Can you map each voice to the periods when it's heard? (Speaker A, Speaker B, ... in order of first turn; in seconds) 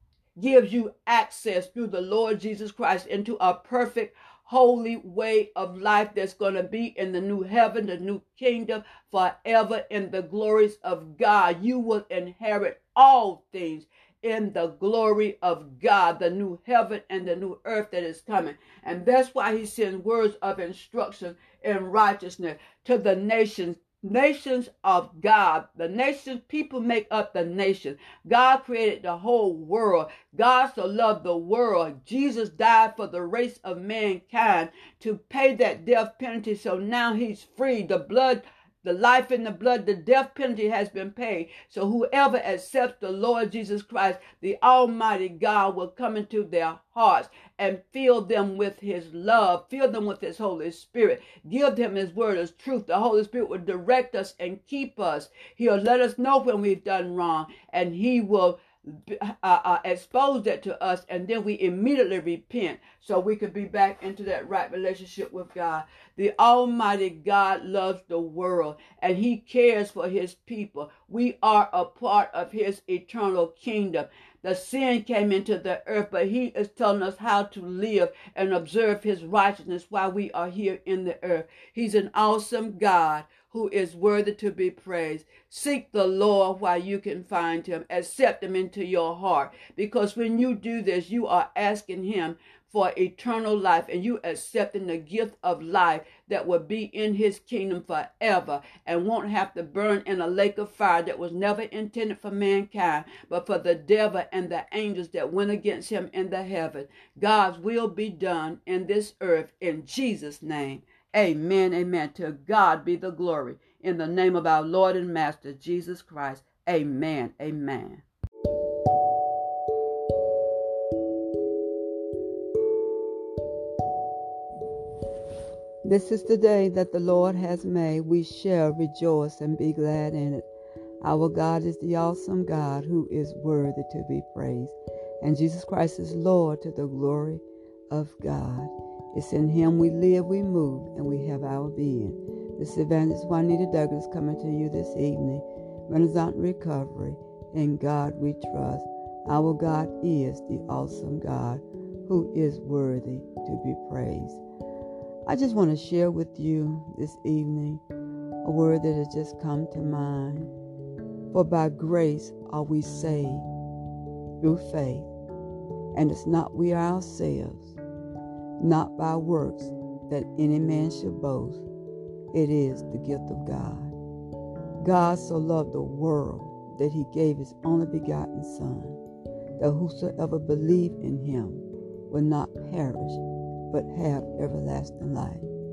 Speaker A: 0.4-118.0, 125.8-130.5, 131.0-154.4, 155.3-157.8, 158.4-160.5, 161.3-163.5, 164.4-165.1, 165.9-167.8, 168.6-171.7, 172.3-173.9, 174.8-179.0, 179.6-185.5